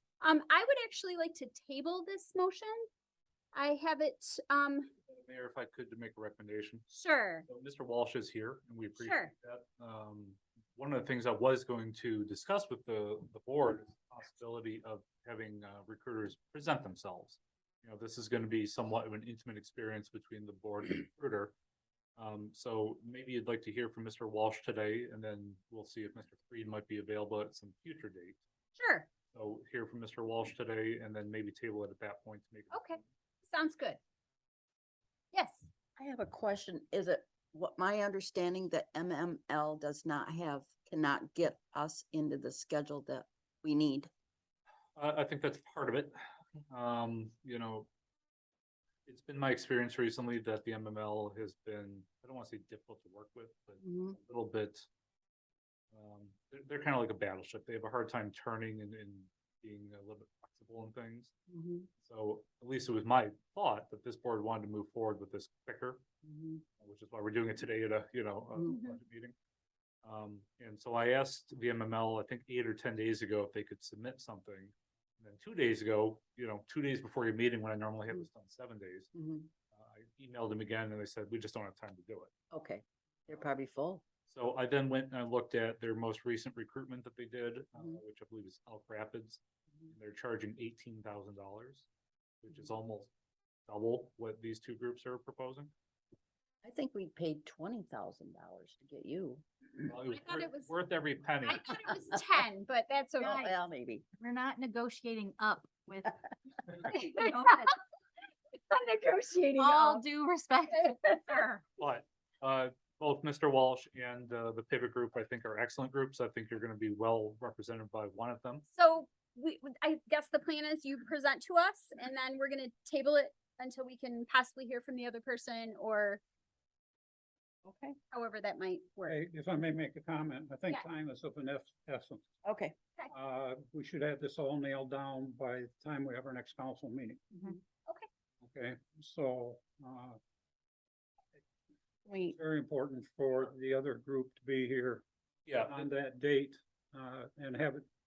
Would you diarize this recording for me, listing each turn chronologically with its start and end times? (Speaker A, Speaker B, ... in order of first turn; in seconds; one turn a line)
Speaker A: 0.2-2.9
Speaker A: 3.5-4.9
Speaker B: 5.1-6.8
Speaker A: 6.9-7.5
Speaker B: 7.5-21.5
Speaker A: 8.9-9.3
Speaker B: 22.2-28.4
Speaker A: 28.8-29.1
Speaker B: 29.3-32.7
Speaker A: 32.7-34.0
Speaker A: 35.3-35.7
Speaker C: 36.0-44.1
Speaker B: 45.0-46.1
Speaker B: 46.7-47.9
Speaker B: 49.1-54.9
Speaker C: 53.8-54.2
Speaker B: 55.9-61.3
Speaker C: 61.5-61.9
Speaker B: 62.0-66.0
Speaker C: 66.2-66.6
Speaker B: 66.8-69.3
Speaker C: 68.6-68.8
Speaker A: 68.6-69.0
Speaker B: 70.0-79.1
Speaker C: 79.1-79.5
Speaker B: 79.7-82.3
Speaker C: 82.5-84.0
Speaker B: 84.3-89.4
Speaker C: 87.8-88.0
Speaker B: 89.9-91.9
Speaker B: 92.4-93.1
Speaker B: 93.7-95.7
Speaker C: 96.6-99.4
Speaker B: 99.9-101.5
Speaker A: 100.0-100.8
Speaker A: 101.4-103.5
Speaker C: 103.2-104.1
Speaker D: 103.2-103.5
Speaker E: 104.2-105.7
Speaker D: 104.2-106.1
Speaker A: 106.8-107.7
Speaker D: 107.0-107.7
Speaker A: 108.7-110.0
Speaker D: 109.6-111.6
Speaker E: 110.2-110.6
Speaker A: 110.7-111.4
Speaker B: 111.8-118.6
Speaker A: 118.7-126.2
Speaker C: 127.7-128.0
Speaker A: 128.1-129.2
Speaker E: 129.1-132.2
Speaker C: 132.4-132.8
Speaker E: 133.1-137.4
Speaker E: 138.4-140.2
Speaker C: 142.1-142.4
Speaker E: 142.3-145.0
Speaker B: 145.5-145.9
Speaker E: 145.7-147.8